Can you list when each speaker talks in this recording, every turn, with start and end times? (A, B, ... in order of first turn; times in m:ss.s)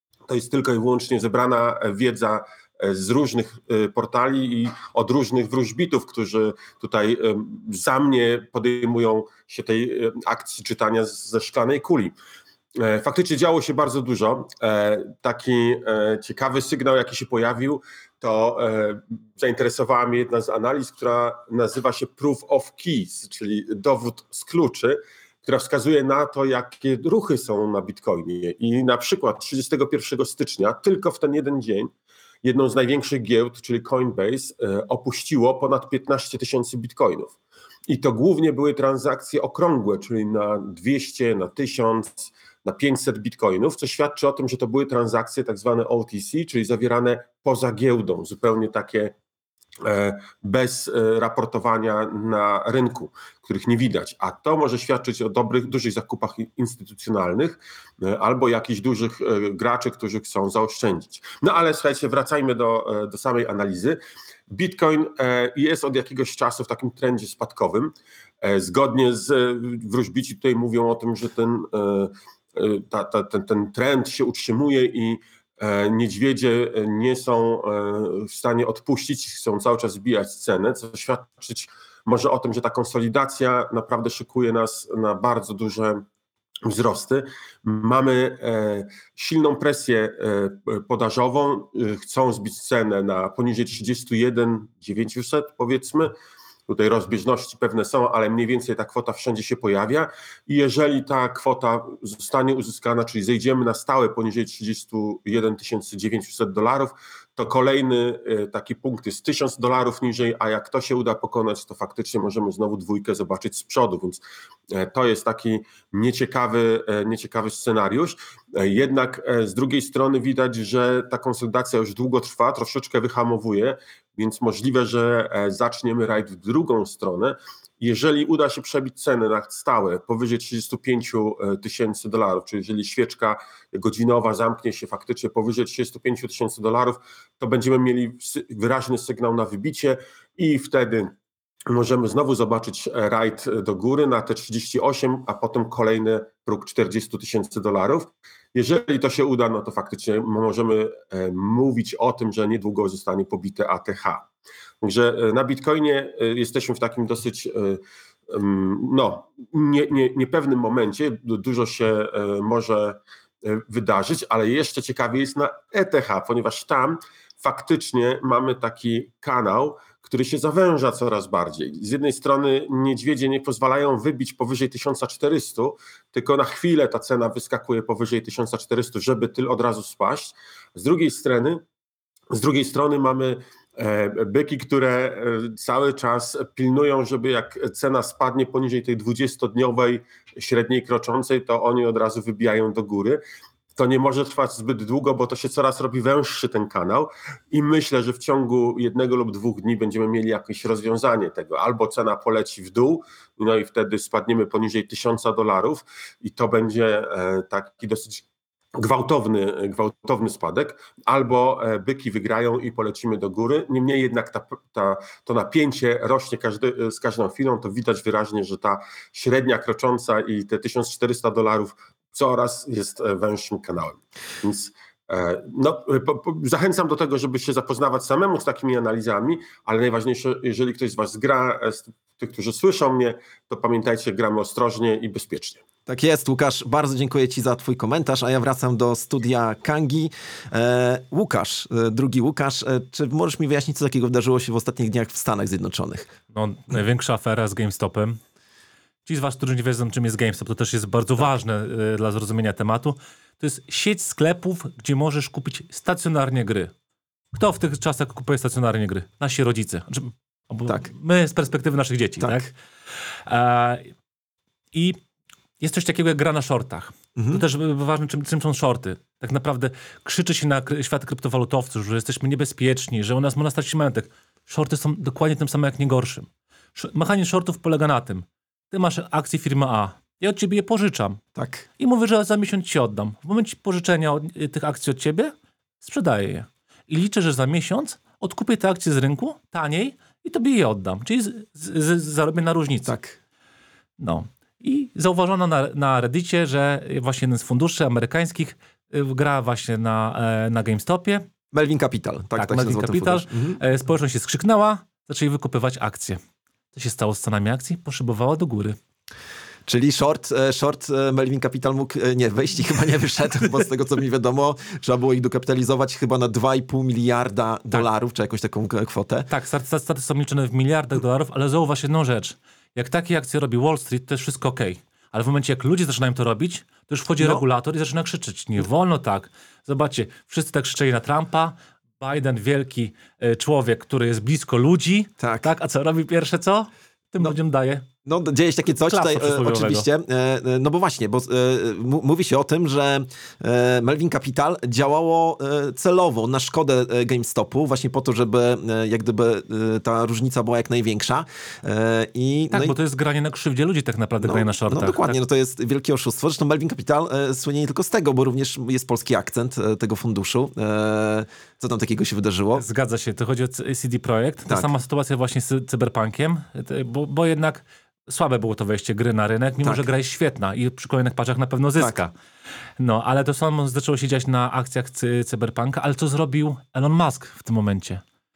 0:00.3-0:12.1 A
0:12.8-0:31.9 A
0:32.4-0:37.3 A
0:37.9-0:49.1 A
0:49.8-1:04.0 A
1:04.5-1:07.9 A
1:08.4-1:26.0 A
1:26.7-1:36.1 A
1:36.7-1:54.2 A
1:54.7-2:21.1 A
2:21.7-2:34.2 A
2:34.8-3:01.6 A
3:02.3-3:13.2 A
3:13.8-3:28.2 A
3:28.8-3:55.6 A
3:55.9-4:06.1 B
4:06.3-4:08.2 C
4:09.0-4:16.7 C
4:17.3-4:22.5 C
4:22.2-4:22.5 B
4:23.3-4:23.9 C
4:25.6-4:41.2 C
4:27.2-4:27.4 B
4:41.3-4:41.7 B
4:41.8-4:52.9 C
4:52.8-4:53.2 B
4:54.0-5:01.3 C
5:01.5-5:03.6 B
5:02.4-5:06.2 C
5:06.7-5:08.8 C
5:09.7-5:19.3 B
5:19.3-5:37.8 C
5:35.2-5:35.5 B
5:38.0-5:52.8 B
5:38.9-5:39.8 C
5:52.5-5:55.2 C
5:54.2-6:02.6 B
6:02.5-6:12.1 C
6:09.6-6:10.0 B
6:12.8-6:18.0 C